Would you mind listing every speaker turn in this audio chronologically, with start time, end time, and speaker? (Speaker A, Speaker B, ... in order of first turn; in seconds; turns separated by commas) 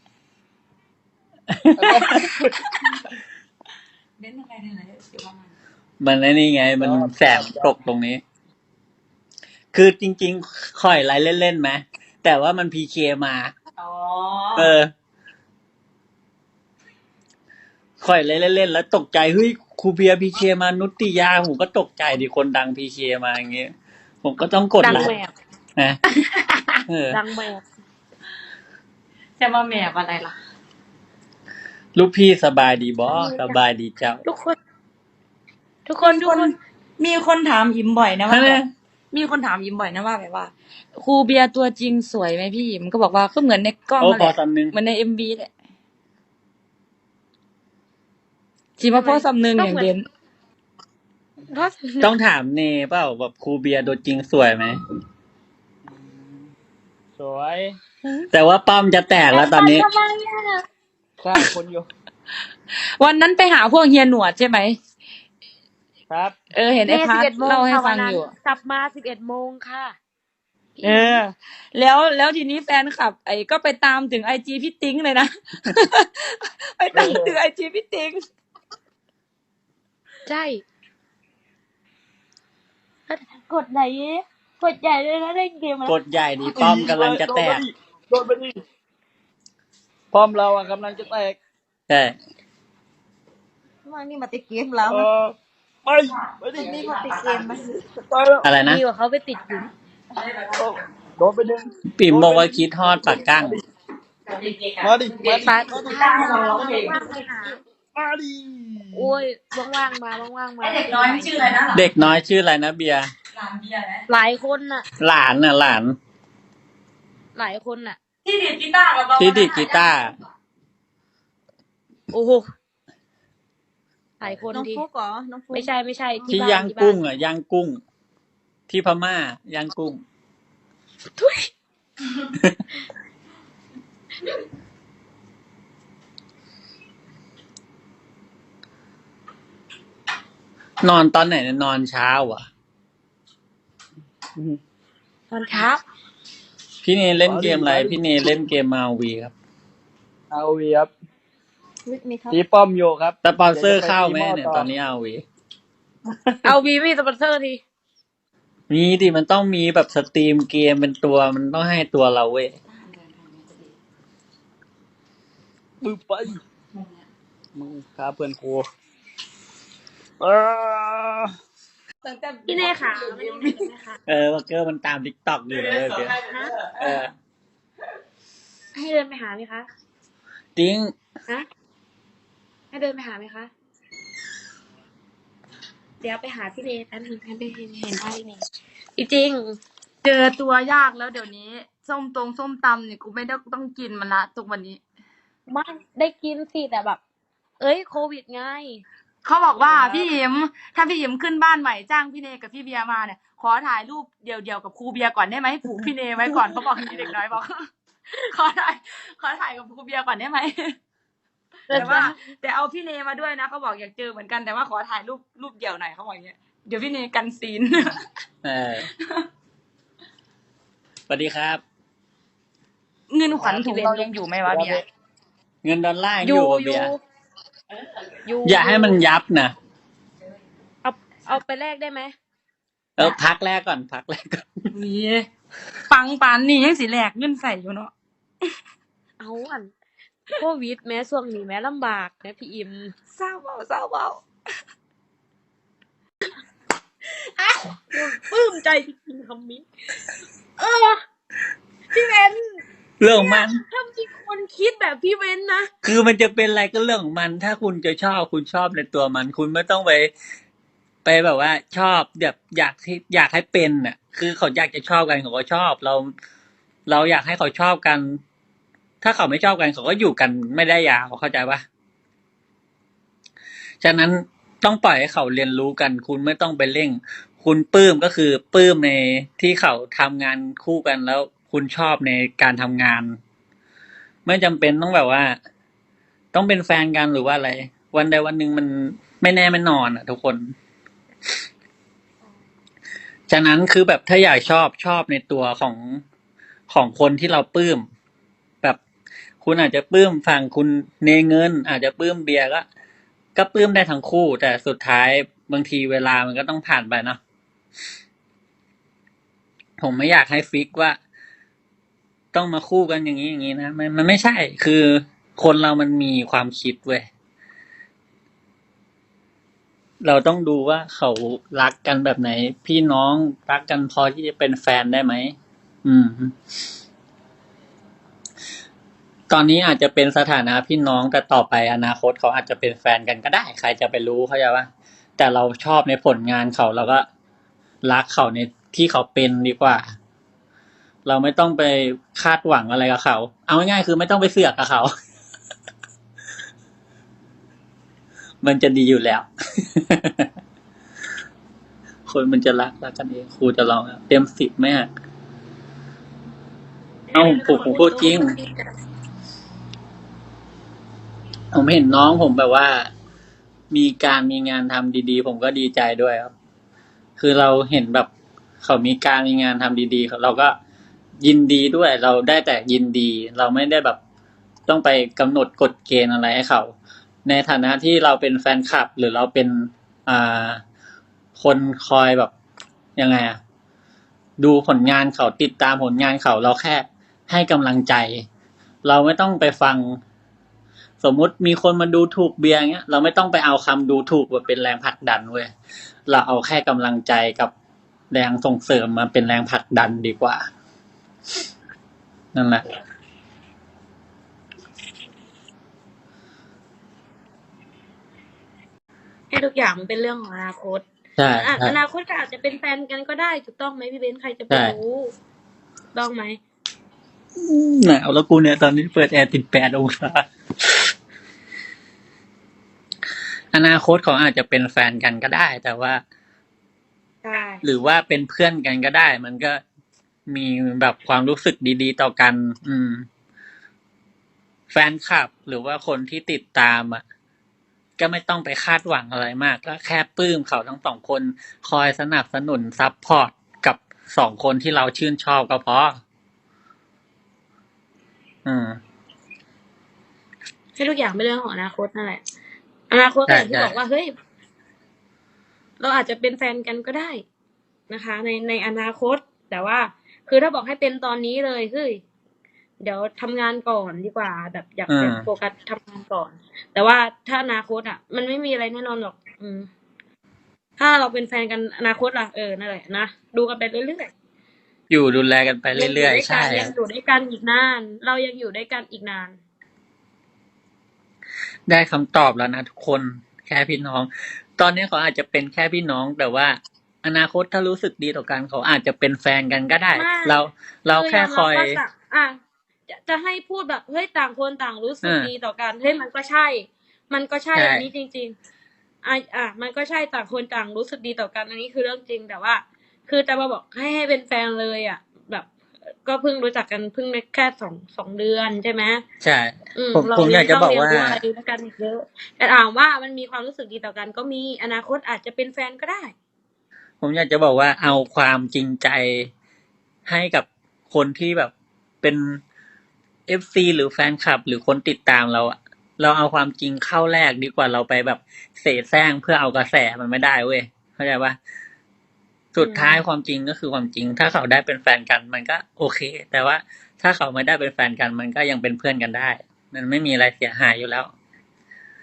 Speaker A: 1.6-2.3, Speaker B: 1.8-2.6, Speaker C: 4.2-5.5, Speaker A: 6.0-8.2, Speaker B: 6.8-7.7, Speaker A: 9.7-13.5, Speaker C: 13.8-14.7, Speaker A: 14.6-14.9, Speaker A: 18.0-23.7, Speaker A: 24.2-25.1, Speaker D: 24.8-25.3, Speaker C: 26.4-26.8, Speaker A: 26.9-27.2, Speaker D: 27.1-27.6, Speaker C: 29.4-30.3, Speaker A: 31.9-34.2, Speaker D: 33.1-33.6, Speaker D: 34.2-34.5, Speaker D: 35.9-36.5, Speaker C: 36.0-45.5, Speaker A: 38.3-38.7, Speaker A: 44.0-44.7, Speaker C: 48.8-50.1, Speaker D: 48.8-49.9, Speaker D: 51.5-52.1, Speaker A: 52.0-54.8, Speaker B: 55.9-56.5, Speaker B: 57.2-57.8, Speaker A: 58.3-59.9, Speaker D: 59.3-60.6, Speaker B: 61.2-61.9, Speaker C: 63.0-64.8, Speaker B: 66.1-66.3, Speaker C: 66.5-68.3, Speaker D: 66.8-70.0, Speaker D: 70.8-71.2, Speaker C: 70.8-78.2, Speaker B: 76.9-77.3, Speaker D: 80.3-80.6, Speaker D: 83.1-86.0, Speaker A: 85.8-87.6, Speaker B: 86.4-88.6, Speaker B: 90.1-91.4, Speaker A: 91.9-92.2, Speaker E: 93.8-95.1, Speaker B: 94.8-95.3, Speaker B: 95.8-98.5, Speaker E: 96.5-97.7, Speaker C: 96.5-97.4, Speaker A: 98.4-98.8, Speaker D: 98.7-99.7, Speaker C: 100.2-100.7, Speaker B: 100.6-103.6, Speaker A: 101.9-103.6, Speaker C: 104.3-107.1, Speaker B: 104.8-106.4, Speaker D: 105.3-107.6, Speaker B: 107.9-109.1, Speaker D: 108.9-111.6, Speaker C: 110.6-112.1, Speaker A: 111.7-113.1, Speaker C: 113.3-114.0, Speaker D: 114.1-114.8, Speaker A: 115.0-116.0, Speaker D: 117.3-118.0, Speaker C: 118.2-119.9, Speaker A: 119.2-120.1, Speaker D: 122.1-122.5, Speaker D: 124.2-124.8, Speaker E: 124.5-125.7, Speaker D: 125.5-127.0, Speaker A: 126.3-127.8, Speaker A: 128.7-130.0, Speaker D: 131.2-131.5, Speaker A: 140.8-142.4, Speaker D: 145.3-145.8, Speaker A: 146.8-149.3, Speaker B: 147.2-148.3, Speaker B: 150.3-150.9, Speaker E: 151.8-152.4, Speaker B: 152.3-154.7, Speaker A: 153.2-155.2, Speaker D: 156.4-157.6, Speaker A: 158.7-162.5, Speaker C: 162.7-163.7, Speaker B: 165.8-166.4, Speaker B: 167.5-168.7, Speaker B: 170.2-171.3, Speaker C: 172.0-173.7, Speaker D: 172.5-174.0, Speaker A: 174.1-176.2, Speaker C: 175.7-177.0, Speaker D: 176.2-176.5, Speaker A: 176.8-177.1, Speaker D: 178.7-179.7, Speaker A: 180.6-180.9, Speaker D: 182.7-183.5, Speaker D: 186.0-188.4, Speaker D: 189.0-189.6, Speaker C: 190.0-194.8, Speaker D: 195.5-197.0, Speaker D: 197.6-198.8, Speaker C: 199.2-210.8, Speaker D: 211.7-212.1, Speaker C: 211.7-218.0, Speaker A: 211.7-212.1, Speaker A: 218.4-218.9, Speaker A: 221.1-221.6, Speaker C: 223.1-224.8, Speaker D: 223.4-224.1, Speaker B: 224.5-224.8, Speaker A: 225.6-226.9, Speaker D: 226.2-227.0, Speaker D: 228.2-229.0, Speaker A: 228.4-229.5, Speaker D: 230.8-232.1, Speaker A: 233.0-234.7, Speaker C: 234.7-235.3, Speaker C: 235.9-237.9, Speaker D: 239.2-239.7, Speaker D: 240.3-242.9, Speaker C: 243.1-244.2, Speaker D: 247.9-249.7, Speaker D: 250.6-251.0, Speaker D: 251.9-255.7, Speaker A: 253.0-253.6, Speaker A: 255.8-260.1, Speaker A: 261.0-266.1, Speaker A: 266.9-268.2, Speaker A: 269.0-271.6, Speaker A: 273.8-283.2, Speaker A: 284.2-285.3, Speaker A: 286.3-290.5, Speaker A: 293.3-296.0, Speaker A: 296.7-297.8, Speaker A: 299.4-302.6, Speaker A: 303.4-307.2, Speaker A: 309.8-310.9, Speaker A: 312.3-317.1, Speaker A: 320.0-325.3, Speaker A: 325.8-326.3, Speaker A: 329.3-337.0, Speaker A: 337.8-339.8, Speaker A: 341.1-344.9, Speaker A: 348.4-350.3, Speaker A: 352.1-354.9, Speaker D: 357.1-358.7, Speaker A: 357.1-358.3, Speaker A: 361.5-362.9, Speaker A: 363.7-366.3, Speaker A: 367.2-368.1, Speaker A: 368.6-370.5, Speaker A: 371.2-374.0, Speaker A: 374.7-376.7, Speaker A: 377.2-380.6, Speaker A: 381.4-382.3, Speaker A: 383.0-383.4, Speaker A: 384.4-388.2, Speaker A: 388.8-390.0, Speaker A: 391.0-395.5, Speaker A: 396.1-397.5, Speaker A: 398.1-400.4, Speaker A: 402.3-402.6, Speaker D: 409.3-410.8, Speaker A: 411.2-411.8, Speaker D: 411.4-415.1, Speaker A: 414.5-414.8, Speaker D: 415.9-416.4, Speaker A: 417.4-420.2, Speaker A: 423.5-426.0, Speaker D: 427.2-427.6, Speaker A: 427.6-429.6, Speaker A: 430.3-433.0, Speaker A: 434.7-437.0, Speaker A: 438.0-446.0, Speaker A: 448.4-448.8, Speaker D: 450.8-452.2, Speaker D: 452.9-454.1, Speaker A: 453.3-453.7, Speaker D: 455.8-457.2, Speaker D: 457.9-462.0, Speaker D: 462.8-469.7, Speaker A: 464.9-465.3, Speaker D: 470.8-474.1, Speaker A: 474.9-476.7, Speaker D: 475.7-479.4, Speaker A: 481.7-491.8, Speaker D: 489.9-490.4, Speaker D: 490.9-492.4, Speaker D: 492.9-498.3, Speaker A: 495.0-495.3, Speaker A: 497.5-497.9, Speaker D: 499.0-505.5, Speaker D: 506.0-509.0, Speaker A: 509.2-511.2, Speaker D: 509.8-516.1, Speaker A: 517.0-519.3, Speaker A: 520.0-522.4, Speaker A: 523.3-531.4, Speaker A: 532.5-541.1, Speaker D: 532.6-533.0